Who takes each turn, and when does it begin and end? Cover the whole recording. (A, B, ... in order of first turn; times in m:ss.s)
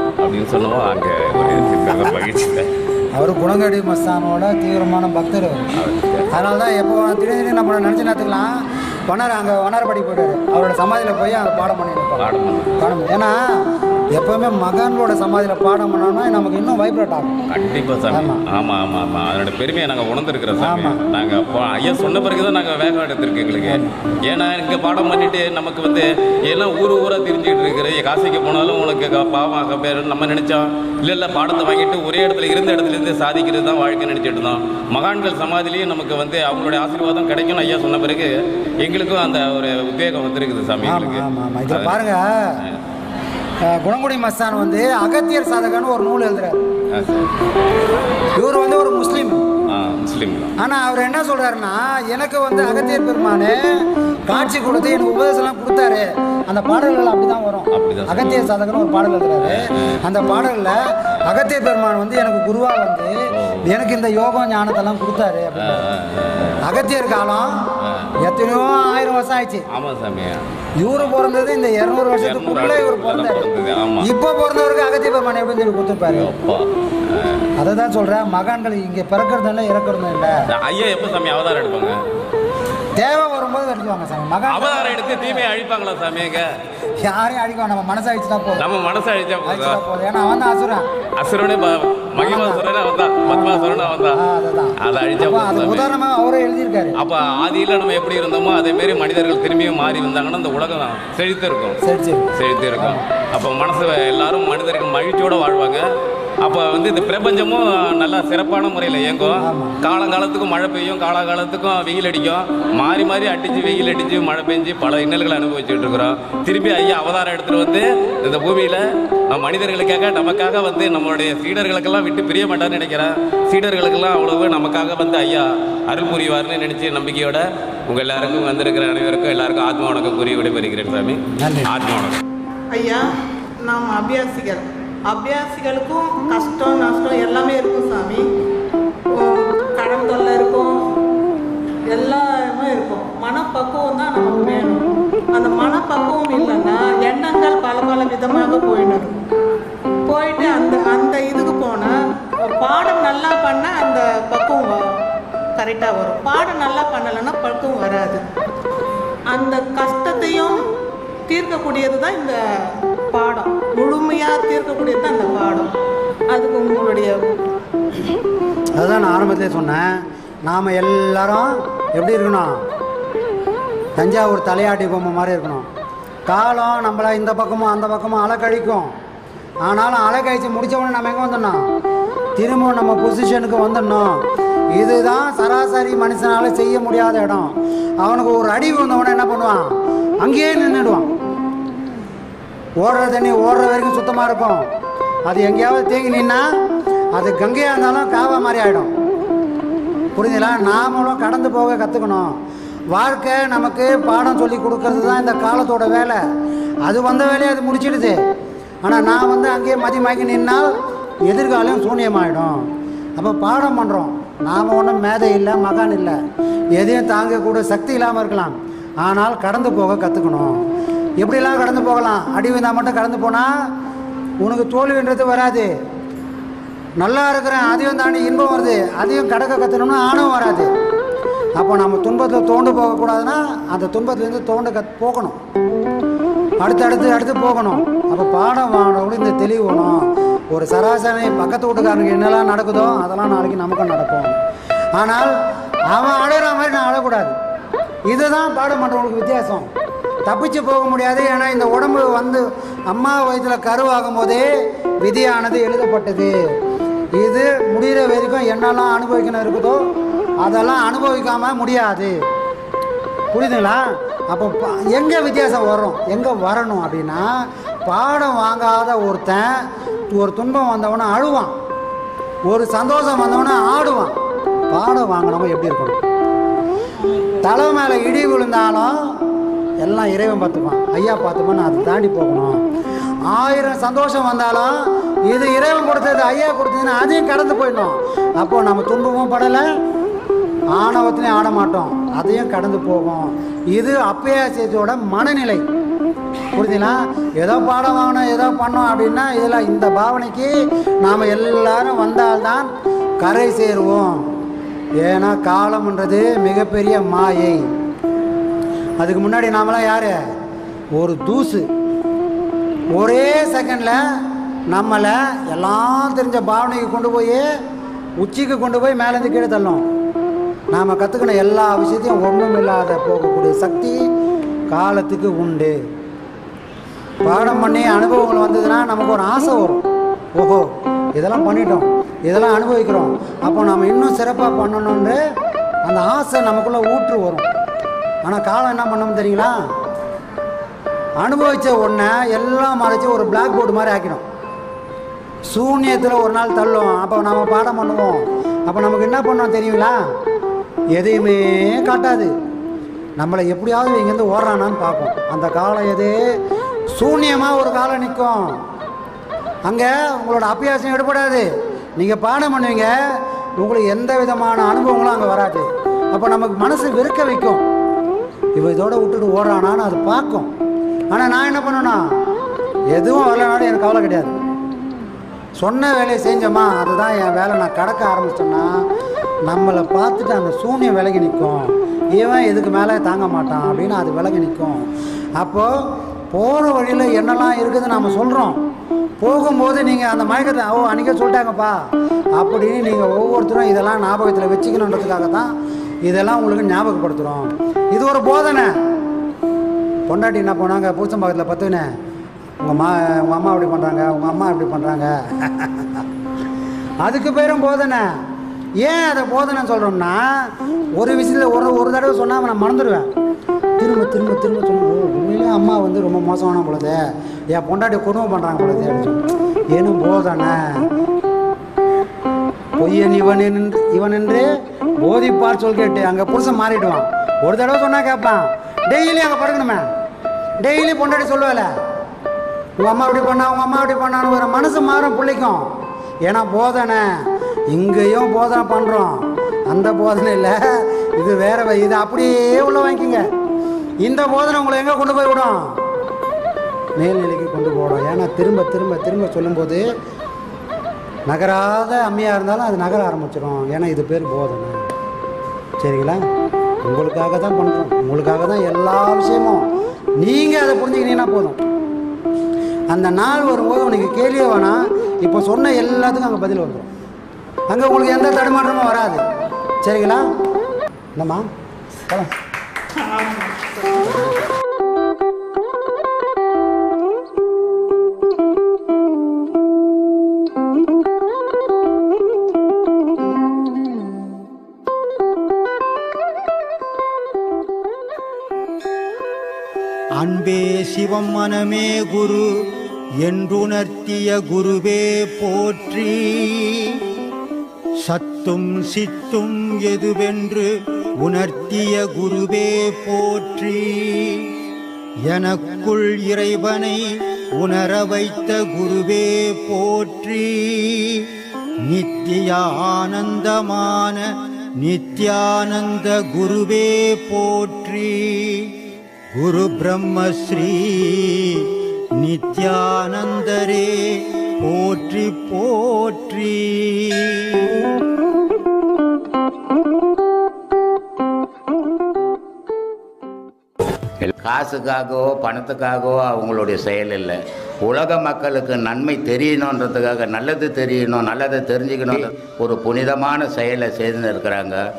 0:00.2-0:02.7 A
0:03.2-0:05.7 B
0:05.8-0:06.3 A
0:06.3-0:08.6 B
0:09.1-0:13.4 B
0:12.2-0:12.9 A
0:14.1-0:17.4 B
0:17.5-0:42.0 A
0:18.1-0:18.4 B
0:20.6-0:21.0 B
0:23.6-0:24.1 B
0:40.8-0:42.6 B
0:43.7-0:46.6 B
0:46.9-0:47.3 A
0:48.3-0:49.4 B
0:49.7-0:50.5 A
0:50.6-0:53.7 B
0:54.2-1:03.1 B
0:57.7-0:58.5 A
0:59.4-1:00.0 A
1:03.3-1:03.6 A
1:03.6-1:05.9 B
1:05.6-1:06.6 A
1:06.6-1:07.6 B
1:07.8-1:08.1 A
1:08.2-1:09.6 B
1:09.7-1:11.1 A
1:10.8-1:13.5 B
1:12.2-1:14.1 A
1:14.0-1:16.3 B
1:16.1-1:17.5 A
1:17.6-1:20.4 B
1:20.5-1:22.0 A
1:23.0-1:25.4 B
1:24.5-1:26.5 A
1:27.0-1:28.7 B
1:28.6-1:29.8 A
1:29.4-1:30.9 B
1:31.2-1:34.2 A
1:32.2-1:32.7 B
1:33.3-1:37.0 B
1:34.8-1:35.9 A
1:37.0-1:41.8 A
1:41.8-1:43.1 B
1:42.4-1:45.8 A
1:46.4-2:12.2 A
1:49.4-1:49.8 B
2:11.4-2:11.7 B
2:12.7-2:18.3 C
2:19.1-2:21.0 C
2:21.9-2:29.2 C
2:30.1-2:34.9 C
2:35.6-2:38.2 C
2:39.3-2:40.6 C
2:41.3-2:45.7 C
2:46.3-2:47.2 C
2:48.8-2:49.9 B
2:50.5-2:52.6 B
2:54.0-2:55.7 B
2:56.3-2:58.9 B
2:59.6-3:01.6 B
3:02.4-3:04.2 B
3:04.7-3:09.7 B
3:10.2-3:11.1 B
3:12.8-3:14.6 B
3:15.3-3:16.5 B
3:17.2-3:18.9 B
3:20.2-3:22.3 B
3:22.9-3:26.2 B
3:26.9-3:28.2 B
3:28.8-3:30.7 B
3:31.3-3:32.6 B
3:33.2-3:36.2 B
3:36.8-3:40.6 B
3:41.2-3:43.5 B
3:44.4-3:45.7 B
3:47.0-3:50.7 B
3:51.6-3:55.4 B
3:56.6-4:04.4 B
4:05.0-4:05.4 B
4:05.9-4:07.3 B
4:08.1-4:09.7 B
4:10.3-4:14.5 B
4:15.0-4:16.3 B
4:17.2-4:19.8 B
4:20.4-4:22.2 B
4:23.3-4:31.5 B
4:32.5-4:34.1 B
4:34.7-4:36.0 B
4:37.4-4:39.0 B
4:39.8-4:42.6 B
4:43.3-4:49.7 B
4:50.8-4:55.6 B
4:56.6-5:02.7 B
5:03.2-5:04.2 B
5:05.0-5:07.6 B
5:09.0-5:10.2 B
5:11.0-5:11.7 B
5:13.0-5:14.0 B
5:14.7-5:17.4 B
5:18.2-5:19.8 B
5:20.7-5:24.0 B
5:24.7-5:25.8 B
5:27.2-5:29.8 B
5:30.4-5:35.2 B
5:35.9-5:37.5 B
5:38.2-5:39.6 B
5:41.2-5:44.2 B
5:45.5-5:50.0 B
5:51.0-5:52.3 B
5:53.2-5:56.2 B
5:56.9-5:58.6 B
5:59.7-6:03.0 B
6:03.6-6:07.6 B
6:08.6-6:10.5 B
6:11.1-6:12.0 B
6:12.9-6:14.3 B
6:15.6-6:18.7 B
6:19.5-6:24.8 B
6:25.4-6:25.7 B
6:26.3-6:28.6 B
6:29.2-6:31.8 B
6:32.4-6:35.5 B
6:36.0-6:38.7 B
6:40.1-6:41.9 B
6:42.6-6:46.0 B
6:47.0-6:48.1 B
6:48.8-6:53.1 B
6:53.8-6:57.0 B
6:57.5-7:00.6 B
7:02.8-7:04.5 B
7:05.0-7:09.9 B
7:10.6-7:11.7 B
7:12.8-7:15.7 B
7:16.3-7:17.1 B
7:17.7-7:23.2 B
7:24.0-7:25.8 B
7:27.0-7:29.8 B
7:31.3-7:34.8 B
7:35.8-7:36.2 B
7:36.8-7:39.6 B
7:40.2-7:41.6 B
7:42.9-7:46.9 B
7:47.7-7:49.2 B
7:49.8-7:50.2 B
7:51.2-7:51.5 B
7:53.0-7:54.0 C
8:10.2-8:17.0 D
8:18.0-8:24.5 D
8:25.3-8:31.3 D
8:31.8-8:38.8 D
8:39.3-8:47.7 D
8:54.2-9:04.8 E